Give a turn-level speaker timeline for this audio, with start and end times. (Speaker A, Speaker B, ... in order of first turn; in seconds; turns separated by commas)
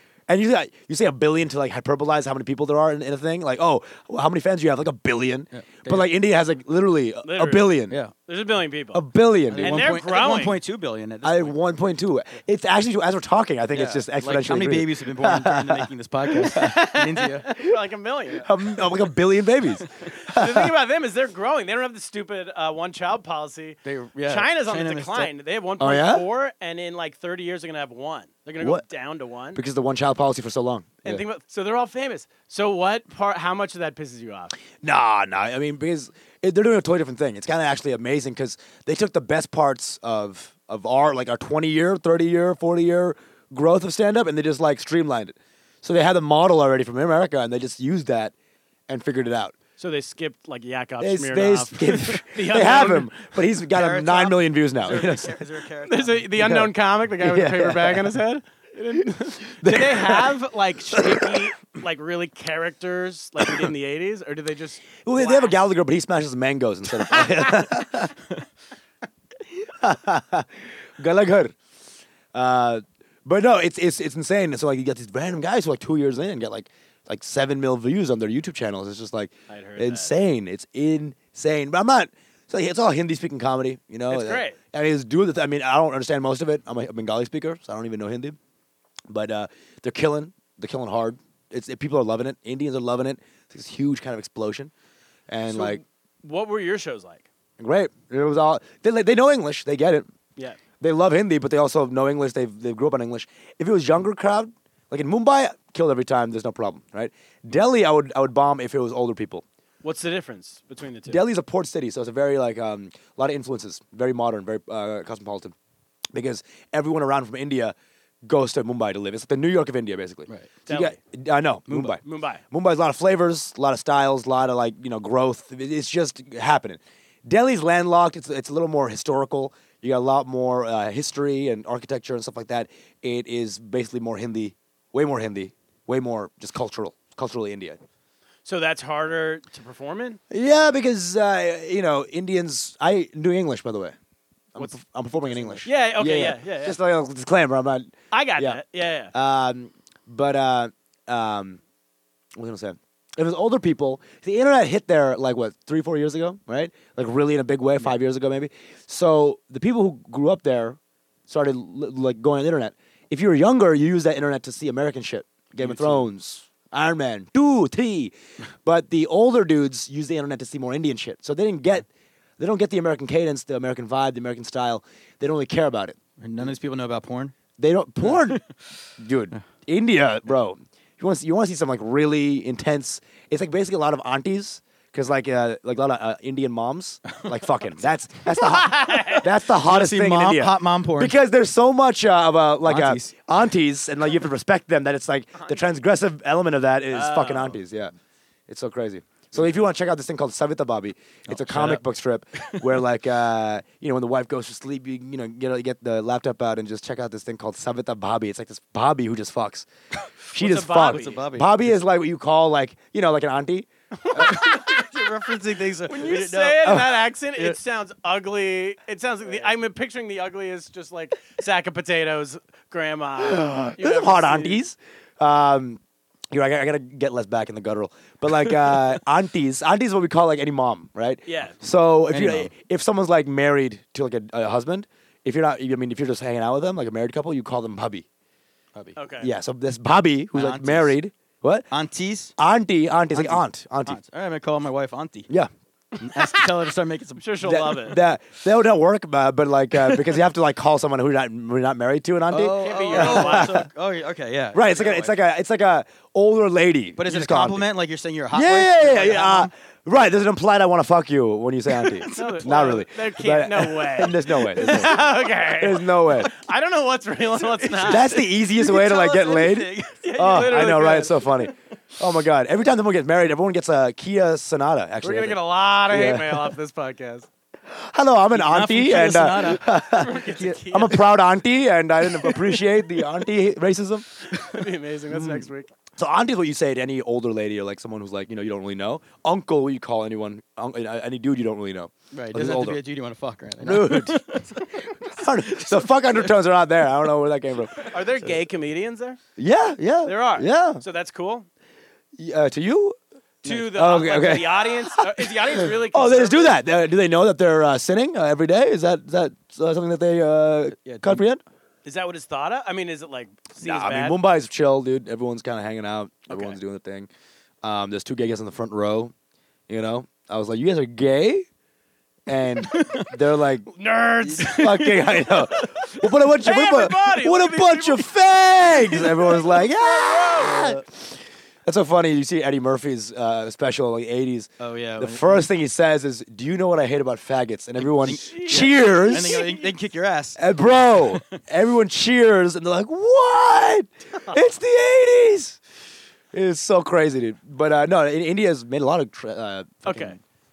Speaker A: 0.3-8.0, Speaker B: 5.5-6.1, Speaker C: 7.2-10.6, Speaker A: 8.9-9.9, Speaker B: 9.5-11.6, Speaker A: 11.2-15.9, Speaker B: 13.7-17.5, Speaker A: 16.5-16.9, Speaker C: 16.5-18.5, Speaker A: 18.4-20.7, Speaker C: 20.2-29.6, Speaker B: 23.9-25.3, Speaker A: 25.8-26.3, Speaker A: 29.5-31.2, Speaker C: 31.0-34.5, Speaker A: 34.8-48.3, Speaker A: 48.9-49.5, Speaker C: 49.8-53.1, Speaker A: 51.0-55.4, Speaker B: 53.7-56.2, Speaker C: 55.9-65.6, Speaker A: 56.4-58.2, Speaker A: 59.5-60.3, Speaker A: 60.9-61.5, Speaker A: 65.0-68.1, Speaker A: 69.5-71.5, Speaker A: 72.3-88.4, Speaker C: 79.5-80.1, Speaker C: 84.1-84.6, Speaker A: 89.1-94.7, Speaker A: 95.3-95.8, Speaker C: 95.5-97.3, Speaker A: 97.6-100.1, Speaker A: 100.8-109.4, Speaker C: 109.8-111.2, Speaker A: 111.1-115.5, Speaker A: 116.1-137.8, Speaker C: 120.7-121.0, Speaker B: 121.7-121.9, Speaker C: 122.0-122.4, Speaker C: 138.4-140.2, Speaker A: 140.3-144.0, Speaker A: 144.6-148.6, Speaker C: 145.3-146.8, Speaker C: 148.1-149.1, Speaker A: 149.1-151.6, Speaker A: 152.4-171.9, Speaker B: 165.6-166.0, Speaker A: 172.4-176.0, Speaker B: 176.2-177.3, Speaker A: 177.6-178.4, Speaker B: 178.1-178.4, Speaker A: 179.0-197.9, Speaker C: 188.5-189.3, Speaker B: 189.5-191.1, Speaker B: 192.6-193.2, Speaker C: 196.9-197.6, Speaker A: 198.5-209.7, Speaker B: 201.3-201.8, Speaker B: 202.4-202.6, Speaker A: 210.3-214.4, Speaker C: 210.3-211.2, Speaker B: 210.8-211.8, Speaker C: 214.0-215.0, Speaker B: 214.1-216.8, Speaker C: 215.9-224.6, Speaker A: 216.6-217.1, Speaker A: 223.2-225.8, Speaker A: 226.3-238.1, Speaker C: 231.3-231.6, Speaker B: 232.1-232.5, Speaker C: 239.0-239.3, Speaker A: 239.2-241.7, Speaker B: 240.3-240.9, Speaker B: 241.7-242.3, Speaker A: 242.4-244.0, Speaker B: 243.1-245.3, Speaker B: 246.0-247.6, Speaker C: 247.2-248.0, Speaker A: 247.4-253.7, Speaker B: 252.3-255.2, Speaker C: 252.6-253.7, Speaker A: 254.5-257.7, Speaker B: 257.0-259.5, Speaker A: 258.3-266.3, Speaker B: 261.7-262.8, Speaker C: 262.2-268.1, Speaker B: 264.6-265.1, Speaker B: 267.3-270.1, Speaker A: 267.8-276.6, Speaker C: 270.0-271.2, Speaker C: 275.0-277.3, Speaker A: 277.7-285.4, Speaker B: 278.3-279.7, Speaker C: 279.9-281.1, Speaker C: 284.3-285.7, Speaker A: 285.9-292.8, Speaker B: 292.1-296.3, Speaker A: 293.6-294.2, Speaker A: 294.9-297.9, Speaker C: 297.8-299.2, Speaker A: 299.4-300.8, Speaker C: 300.0-301.5, Speaker A: 302.2-311.4, Speaker C: 303.4-306.6, Speaker B: 310.8-311.2, Speaker C: 311.9-314.2, Speaker A: 313.6-317.1, Speaker C: 316.3-316.6, Speaker A: 317.6-319.1, Speaker A: 319.7-321.5, Speaker A: 322.3-323.7, Speaker B: 322.6-323.1, Speaker C: 323.7-330.7, Speaker A: 324.2-339.5, Speaker B: 330.4-330.7, Speaker B: 334.6-335.5, Speaker B: 337.8-341.4, Speaker C: 338.0-339.7, Speaker A: 340.4-345.6, Speaker A: 346.3-350.2, Speaker C: 349.9-350.2